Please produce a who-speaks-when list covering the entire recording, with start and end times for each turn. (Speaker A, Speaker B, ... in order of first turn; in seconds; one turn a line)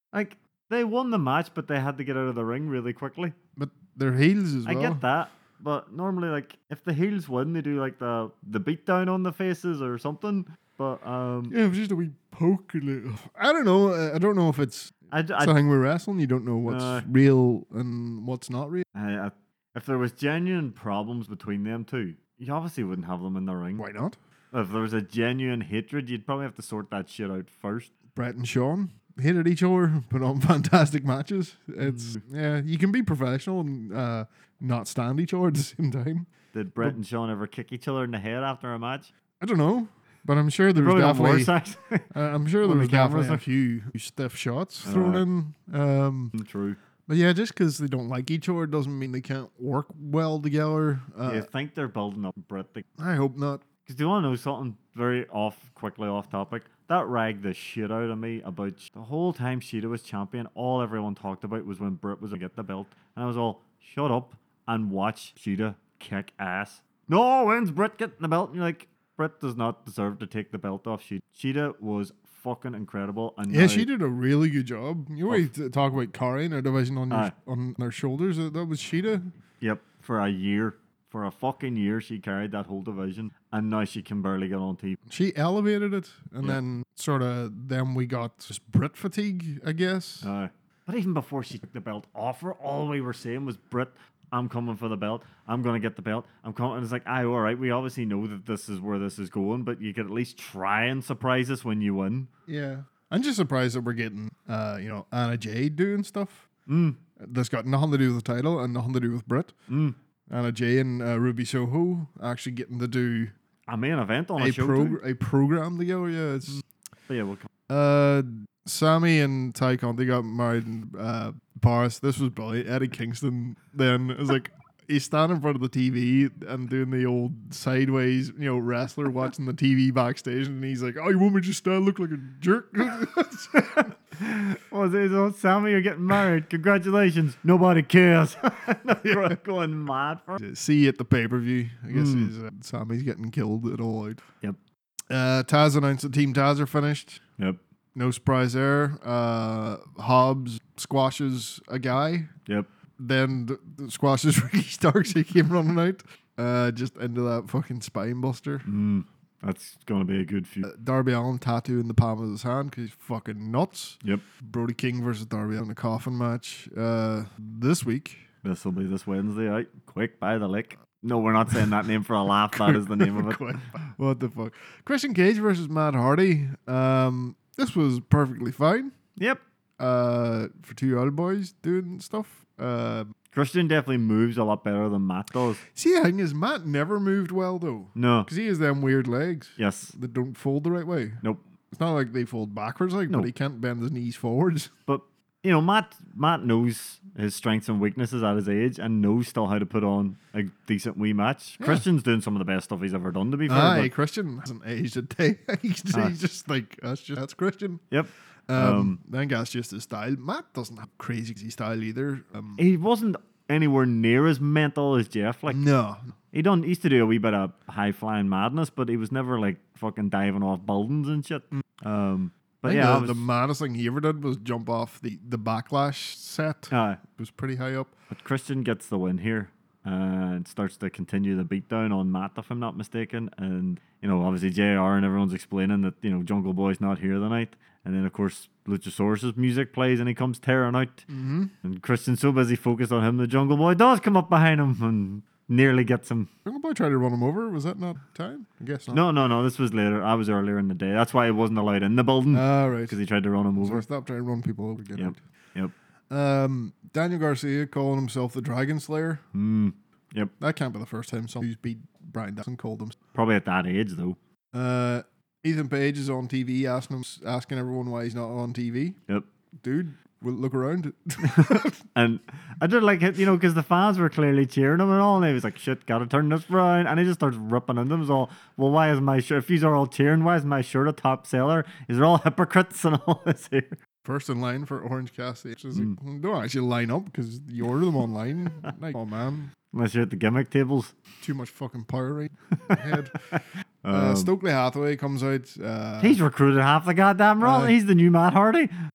Speaker A: 0.1-3.4
Speaker B: 3.6-5.0
Speaker A: 4.7-11.6
Speaker B: 11.5-18.9
Speaker A: 15.1-15.6
Speaker A: 16.7-17.1
Speaker A: 18.9-23.9
Speaker B: 23.8-24.2
Speaker A: 24.5-27.9
Speaker B: 28.1-36.3
Speaker A: 31.8-32.2
Speaker A: 36.5-39.1
Speaker B: 39.4-41.5
Speaker A: 40.8-42.1
Speaker B: 42.1-46.3
Speaker A: 42.6-43.4
Speaker A: 44.9-45.2
Speaker A: 46.3-46.8
Speaker B: 47.1-51.5
Speaker A: 51.2-52.9
Speaker B: 53.0-53.6
Speaker A: 53.9-73.9
Speaker B: 73.5-79.3
Speaker A: 79.6-85.0
Speaker B: 85.1-90.3
Speaker A: 90.2-102.3
Speaker B: 102.5-106.5
Speaker A: 106.7-107.0
Speaker B: 107.2-109.5
Speaker A: 109.7-110.0
Speaker B: 110.3-113.3
Speaker A: 113.7-115.0
Speaker B: 114.4-116.6
Speaker A: 116.5-117.5
Speaker B: 117.7-133.9
Speaker A: 133.8-140.4
Speaker B: 139.0-139.3
Speaker B: 140.4-144.2
Speaker A: 141.9-142.3
Speaker B: 145.1-147.2
Speaker B: 147.9-152.3
Speaker B: 153.0-158.7
Speaker A: 158.7-160.7
Speaker B: 160.6-168.3
Speaker A: 168.4-173.7
Speaker B: 172.5-178.9
Speaker A: 179.2-179.4
Speaker B: 179.8-183.1
Speaker A: 183.3-185.6
Speaker B: 185.7-194.7
Speaker A: 188.0-188.3
Speaker A: 189.6-189.9
Speaker A: 194.9-203.9
Speaker B: 201.6-201.8
Speaker B: 203.5-207.8
Speaker A: 207.9-209.0
Speaker B: 208.5-212.6
Speaker A: 212.6-215.6
Speaker B: 215.5-216.1
Speaker A: 216.3-223.3
Speaker B: 222.7-227.9
Speaker A: 226.7-227.0
Speaker A: 228.1-241.1
Speaker B: 241.1-241.5
Speaker A: 241.6-246.3
Speaker B: 246.5-249.0
Speaker A: 248.9-253.8
Speaker B: 252.3-253.0
Speaker B: 253.6-255.2
Speaker A: 255.0-255.7
Speaker B: 256.1-259.2
Speaker A: 259.3-260.3
Speaker B: 260.4-263.0
Speaker A: 263.1-264.2
Speaker B: 264.5-269.0
Speaker B: 269.6-271.8
Speaker A: 271.2-283.8
Speaker B: 284.0-289.5
Speaker A: 289.7-290.9
Speaker B: 291.2-293.4
Speaker A: 292.6-294.3
Speaker B: 293.9-296.2
Speaker A: 296.0-298.7
Speaker B: 297.4-297.7